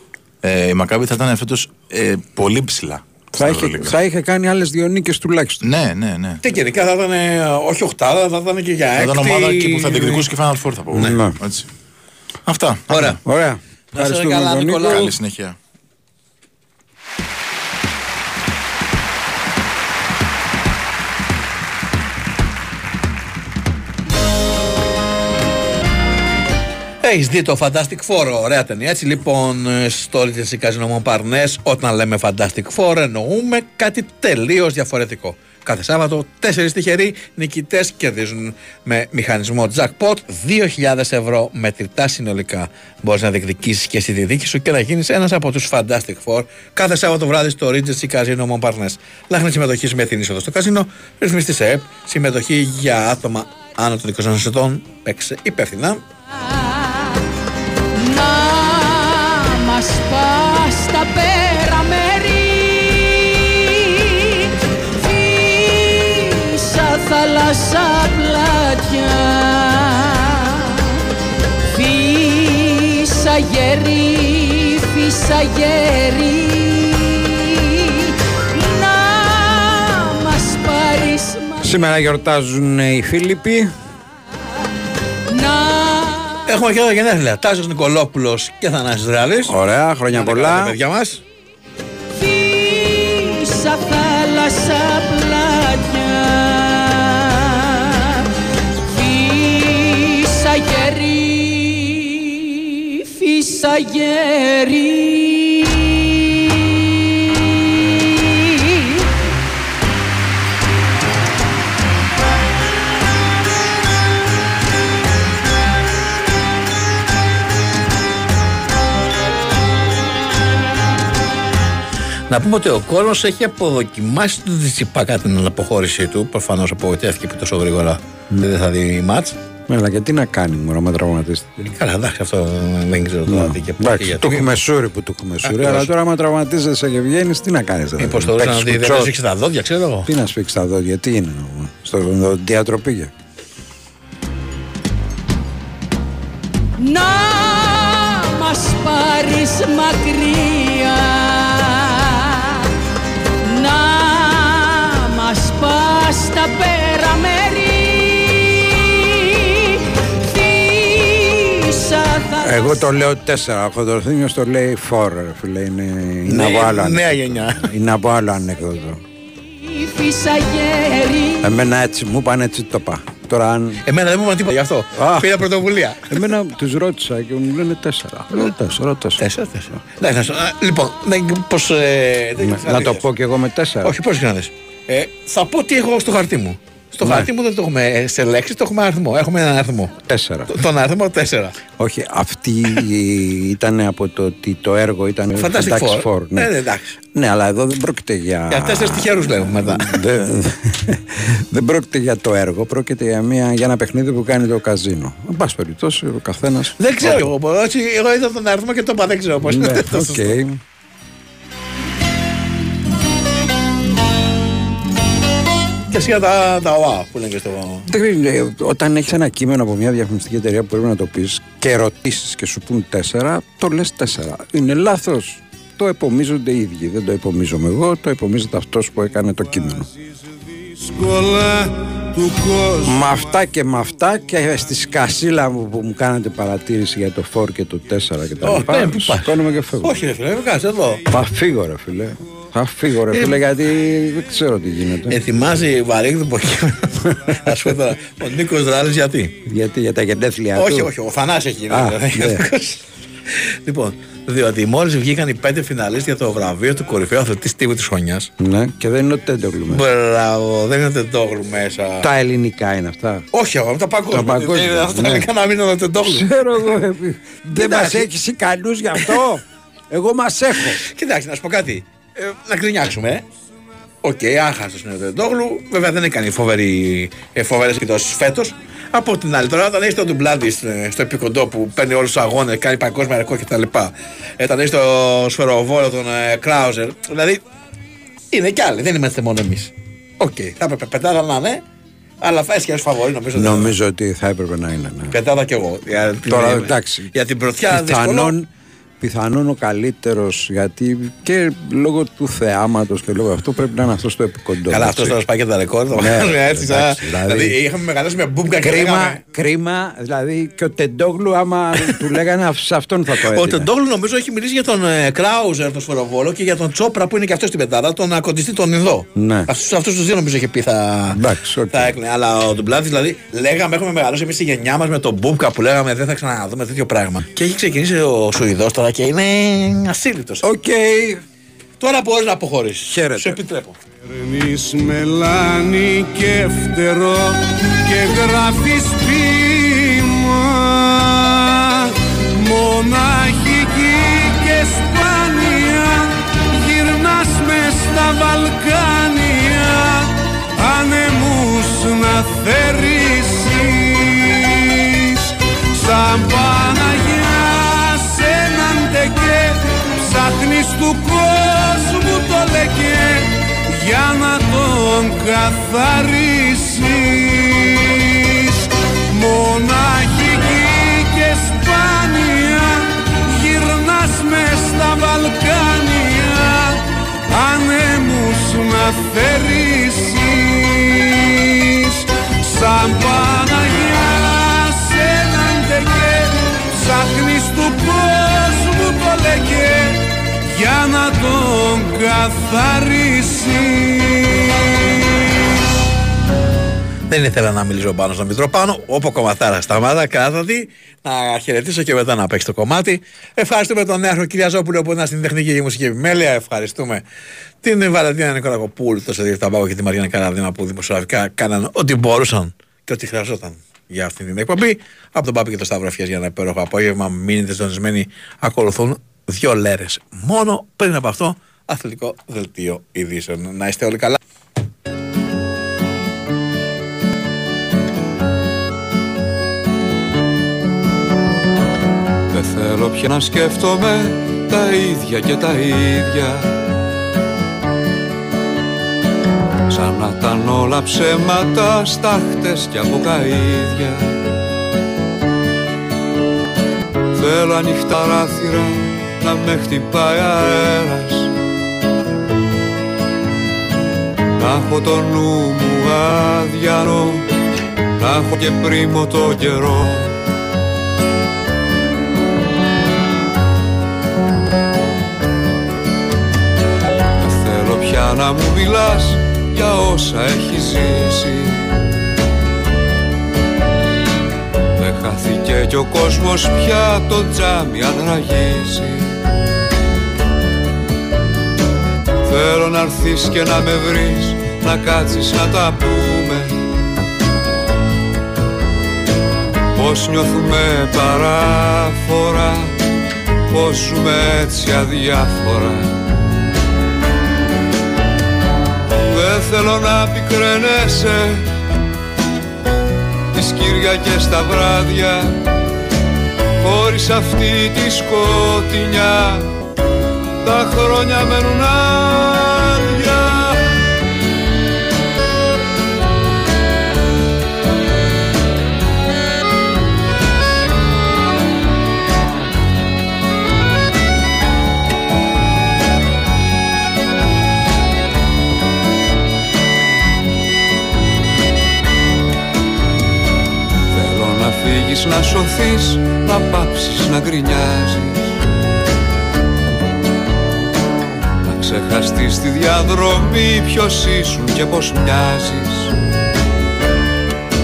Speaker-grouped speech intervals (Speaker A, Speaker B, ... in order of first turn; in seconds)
Speaker A: 0.4-4.0, 5.6-6.4, 8.9-11.7, 12.4-13.2, 14.8-15.6
Speaker B: 3.3-5.6, 11.0-11.3, 13.2-15.1, 81.6-83.7, 89.5-90.7, 129.7-131.6, 133.2-139.1, 140.1-143.1, 162.4-169.0, 171.4-173.8, 174.9-175.3, 176.1-179.2, 182.4-183.9, 190.1-190.5, 191.8-196.5, 197.1-207.3, 209.4-210.6, 217.9-229.9, 232.8-239.9, 241.1-245.2, 249.4-250.9, 251.7-252.4, 258.4-259.8, 262.0-263.2, 264.1-265.3, 266.0-270.8, 293.3-295.2, 296.2-297.1, 297.7-298.5, 299.0-305.2, 305.9-307.6, 308.6-313.7, 319.1-319.5, 321.1-321.9, 330.4-331.2, 332.9-333.4
Speaker C: 6.4-10.3, 12.9-13.2, 13.9-15.1, 27.0-56.0, 86.5-89.5, 90.1-91.2, 122.3-129.3, 131.6-134.5, 135.4-135.9, 138.0-140.1, 166.3-167.7, 173.8-176.0, 179.2-183.0, 183.8-189.9, 190.5-191.6, 195.4-197.0, 198.5-200.0, 206.8-210.4, 215.9-217.8, 238.4-241.0, 243.1-243.4, 245.1-249.3, 250.6-252.8, 253.6-258.3, 259.7-262.0, 263.3-266.4, 267.6-268.1, 270.8-273.2, 274.0-287.4, 288.3-291.6, 292.2-293.7, 295.1-298.3, 304.7-309.2, 313.1-321.2, 321.7-330.4, 331.8-333.8, 397.1-407.0, 407.6-424.2
Speaker D: 58.1-63.1, 65.0-70.1, 71.7-77.0, 78.6-81.6, 85.4-86.2, 92.3-96.9, 98.9-102.1, 103.1-105.8, 146.8-152.3, 153.5-159.5, 160.3-162.8, 169.7-171.4
Speaker E: 230.7-233.0, 334.1-394.8
Speaker F: 432.3-436.5, 439.7-444.2, 447.1-451.3, 454.4-457.2, 458.0-460.2, 467.2-471.7, 474.8-479.2, 482.2-486.6, 489.8-492.7, 493.5-496.0, 498.9-501.5, 503.3-505.4, 506.6-509.5, 510.4-513.5, 533.9-538.4, 541.4-546.0